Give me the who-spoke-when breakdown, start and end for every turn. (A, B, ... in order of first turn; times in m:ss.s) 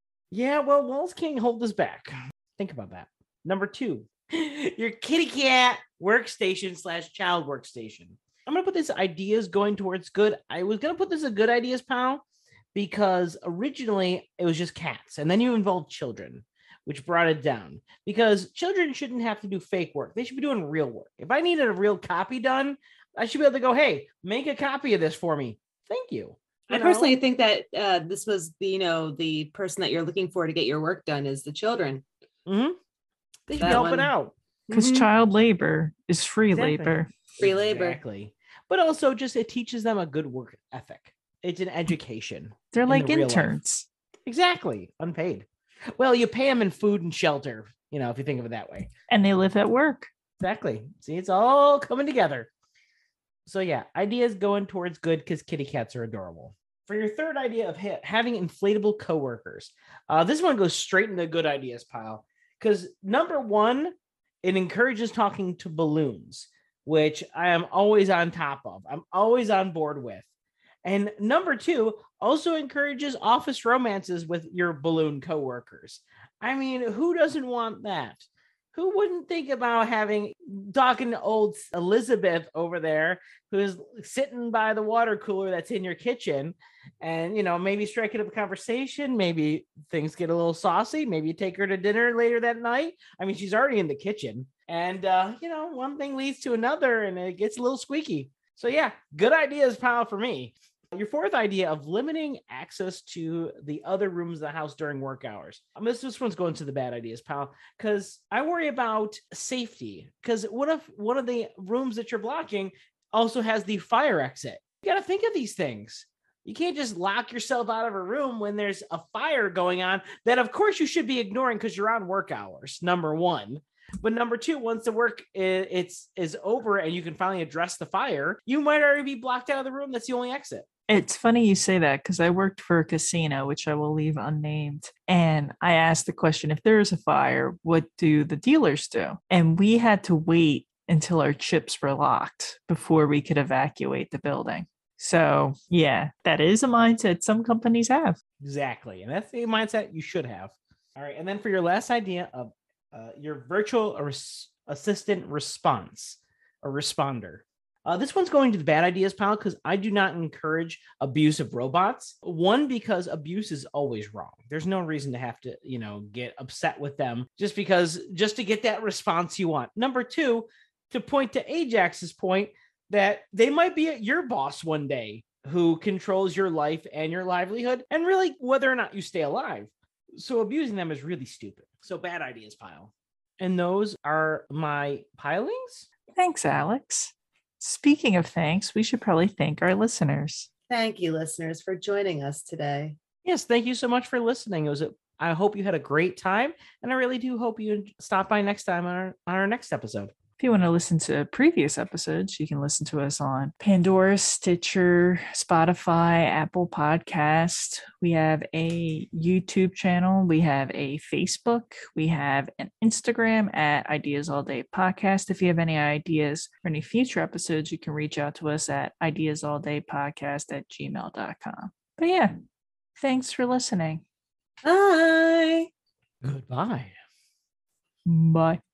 0:00.3-0:12.2 A
0:12.7-0:27.1 A
0:26.7-0:32.0 B
0:32.5-0:32.8 A
0:33.5-0:34.1 B
0:33.5-0:34.3 A
0:34.7-0:35.1 B
0:34.7-0:37.1 C
0:36.5-0:43.6 A
0:37.4-0:38.0 B
0:42.7-0:43.9 C
0:44.3-0:45.5 A
0:46.0-0:48.9 A
0:49.1-0:50.1 C
0:50.4-0:52.5 A
0:53.5-1:10.3 A
1:10.8-2:10.7 A
2:10.9-2:28.2 C
2:28.4-3:05.9 A
3:06.2-3:10.5 C
3:10.7-3:13.0 B
3:13.2-3:20.1 A
3:20.4-3:42.3 C
3:43.0-3:44.0 C
3:44.6-3:45.7 B
3:46.2-3:46.9 A
3:48.1-3:48.6 C